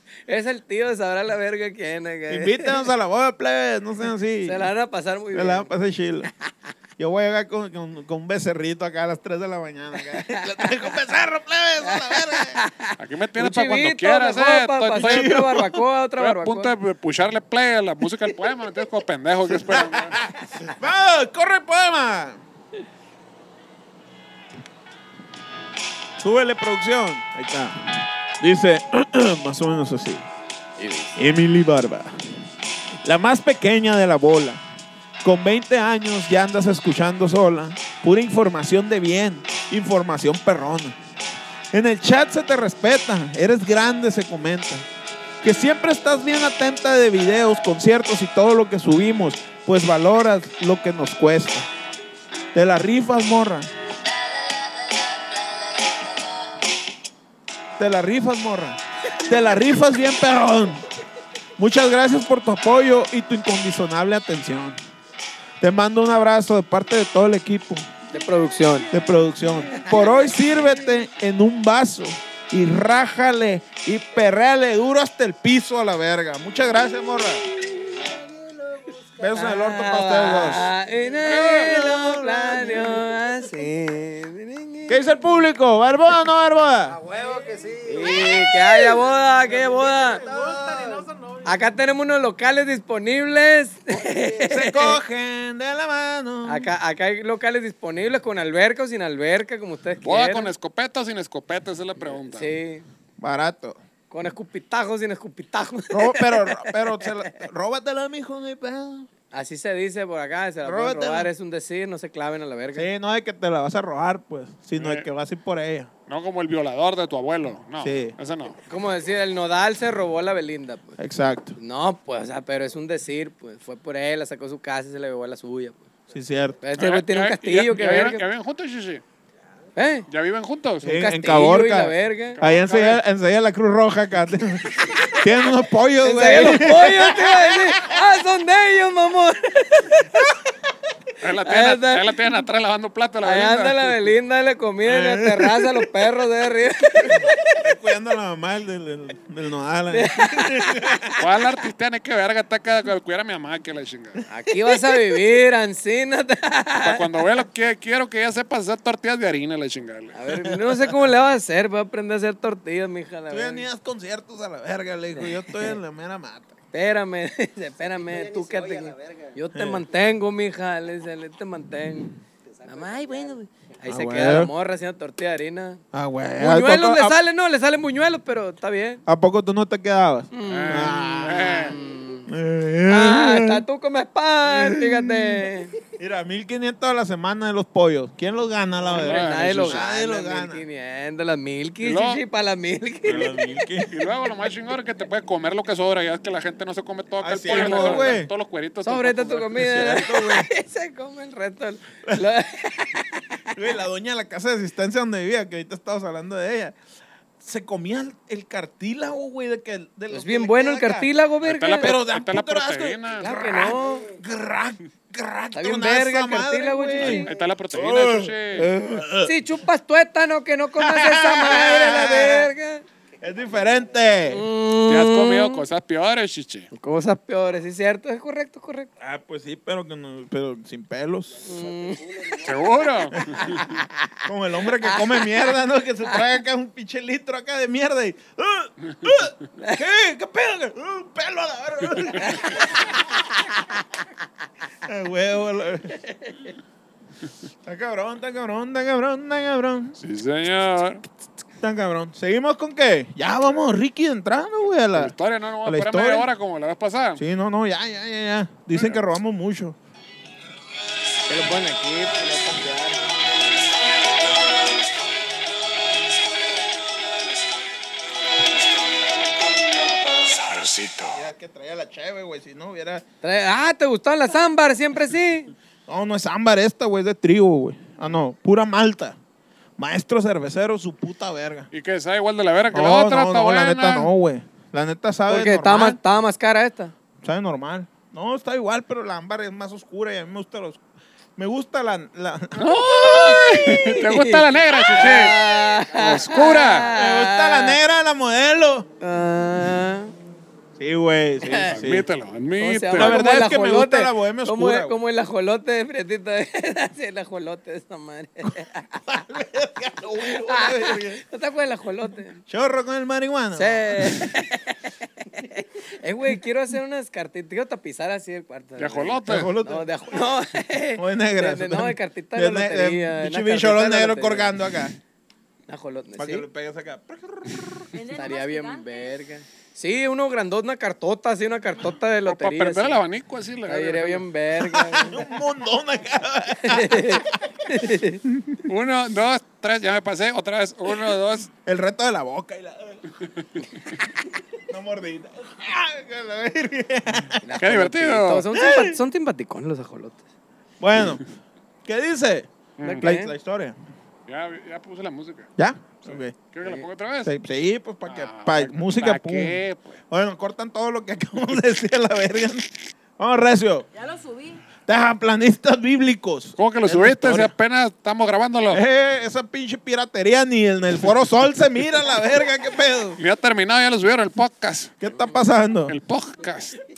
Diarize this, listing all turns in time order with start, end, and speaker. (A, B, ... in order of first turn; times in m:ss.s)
0:00.3-0:02.9 A
0:02.3-0:04.7 B
0:04.4-0:05.7 A
0:05.3-0:06.3 B
0:07.0-0:12.6 B
0:10.0-0:10.8 A
0:11.8-0:16.7 A
0:13.0-0:15.6 C
0:14.9-0:15.7 B
0:16.2-0:20.2 C
0:19.5-0:22.4 B
0:26.2-0:30.3 B
0:30.8-0:31.2 A
0:31.2-0:32.2 B
0:33.0-0:34.6 B
0:35.2-0:41.0 B
0:41.7-0:44.9 B
0:45.4-0:51.7 B
0:52.5-0:53.7 B
0:57.8-1:00.9 B
1:01.6-1:04.8 B
1:05.6-1:07.9 B
1:08.1-1:08.9 A
1:08.9-1:17.4 B
1:09.7-1:10.3 A
1:17.9-1:19.4 D
1:19.2-1:20.7 B
1:19.3-1:25.2 A
1:20.7-1:21.2 D
1:21.2-1:21.7 C
1:21.3-1:23.0 B
1:22.8-1:23.0 D
1:24.9-1:27.0 B
1:26.9-1:28.5 D
1:27.8-1:30.2 A
1:29.4-1:31.5 D
1:30.2-1:31.1 B
1:31.4-1:35.0 A
1:33.9-1:34.6 D
1:34.5-1:36.7 B
1:36.5-1:40.5 A
1:40.0-1:42.5 C
1:42.3-1:42.9 A
1:43.2-1:43.8 B
1:44.1-1:47.4 A
1:45.9-1:49.1 B
1:49.3-1:52.9 A
1:50.6-1:51.3 B
1:52.8-1:55.9 B
1:54.8-1:55.1 C
1:56.1-1:58.6 C
1:57.8-1:58.2 B
1:58.7-2:01.0 A
2:01.0-2:01.6 B
2:01.6-2:05.8 A
2:06.1-2:06.6 B
2:06.6-2:08.2 A
2:06.8-2:09.0 C
2:09.8-2:10.1 A
2:10.1-2:11.0 C
2:10.8-2:17.9 B
2:10.9-2:12.4 A
2:12.4-2:13.0 C
2:14.9-2:15.2 A
2:16.0-2:20.1 A
2:21.2-2:24.0 C
2:21.4-2:22.2 A
2:23.2-2:27.7 A
2:24.8-2:25.8 B
2:27.1-2:31.2 B
2:29.9-2:31.2 A
2:31.2-2:34.2 C
2:34.3-2:37.1 A
2:36.8-2:40.2 C
2:40.1-2:43.7 A
2:43.3-2:46.5 B
2:45.2-2:45.8 A
2:46.7-2:52.2 A
2:48.0-2:49.4 D
2:49.5-2:49.8 B
2:52.4-2:53.4 D
2:52.7-2:55.8 A
2:53.9-2:54.5 B
2:55.9-2:57.2 B
2:56.4-2:59.0 A
2:59.1-3:01.8 B
3:00.3-3:02.3 A
3:00.4-3:01.8 C
3:02.3-3:03.6 B
3:02.9-3:05.7 A
3:04.5-3:05.4 B
3:06.0-3:10.6 B
3:08.9-3:13.5 A
3:08.9-3:09.8 C
3:11.8-3:12.2 C
3:13.0-3:13.9 B
3:13.9-3:19.7 C
3:17.2-3:18.3 B
3:17.5-3:18.2 A
3:18.8-3:23.5 A
3:19.6-3:20.5 B
3:23.5-3:26.8 B
3:27.4-3:31.1 B
3:30.1-3:32.0 A
3:31.4-3:33.3 C
3:31.8-3:39.4 B
3:33.2-3:34.1 A
3:35.5-3:37.3 A
3:37.0-3:38.7 C
3:39.2-3:42.8 A
3:40.8-3:42.5 B
3:43.2-3:44.4 B
3:43.2-3:44.0 D
3:44.3-3:45.6 A
3:44.9-3:46.7 C
3:46.7-3:48.9 A
3:49.0-3:51.4 B
3:51.3-3:53.6 D
3:51.4-3:52.4 A
3:52.4-3:53.6 C
3:53.1-4:03.8 B
3:53.6-3:53.8 A
3:54.8-3:55.5 A
3:59.6-3:59.8 A
4:04.8-4:06.0 B
4:07.6-4:10.0 B
4:10.0-4:11.0 C
4:11.6-4:15.1 B
4:15.0-4:17.2 C
4:15.6-4:16.3 B
4:17.2-4:19.8 B
4:18.7-4:19.0 C
4:21.3-4:23.1 A
4:30.3-4:31.1 C
4:31.0-4:33.0 B
4:33.2-4:35.5 A
4:35.9-4:39.2 B
4:39.8-4:41.7 B
4:41.7-4:44.1 C
4:42.7-4:46.0 B
4:45.3-4:46.9 A
4:47.2-4:50.8 B
4:51.4-4:53.7 B
4:52.6-4:55.4 C
4:53.0-4:57.8 A
4:55.9-4:56.9 C
4:56.8-4:58.9 B
4:59.0-5:00.1 A
5:00.8-5:02.1 B
5:01.4-5:01.7 A
5:01.7-5:03.2 C
5:02.6-5:09.0 A
5:02.9-5:05.0 B
5:09.0-5:11.2 B
5:10.3-5:12.4 A
5:12.5-5:14.4 B
5:13.6-5:24.5 A
5:18.8-5:19.5 C
5:19.2-5:19.9 B
5:21.0-5:25.0 B
5:25.7-5:26.5 A
5:26.2-5:27.9 B
5:27.9-5:29.2 E
5:28.1-5:33.0 A
5:32.2-5:34.2 C
5:33.7-5:35.3 A
5:34.7-5:37.5 B
5:36.6-5:38.2 A
5:38.3-5:38.6 B
5:38.6-5:41.5 C
5:41.6-5:43.1 B
5:44.6-5:47.4 B
5:47.4-5:50.2 A
5:47.6-5:48.5 C
5:48.5-5:49.0 B
5:50.8-5:51.2 B
5:51.8-5:52.5 B
5:52.8-5:53.1 C
5:52.8-5:53.3 A
5:53.0-5:53.8 B
5:54.3-5:55.5 C
5:55.6-5:56.4 B
5:56.4-5:57.3 C
5:57.2-6:03.9 B
5:58.1-6:00.0 C
6:03.9-6:04.7 E
6:04.8-6:07.5 B
6:06.6-6:08.8 C
6:08.7-6:13.2 B
6:13.2-6:15.0 C
6:15.0-6:16.0 B
6:15.9-6:16.8 C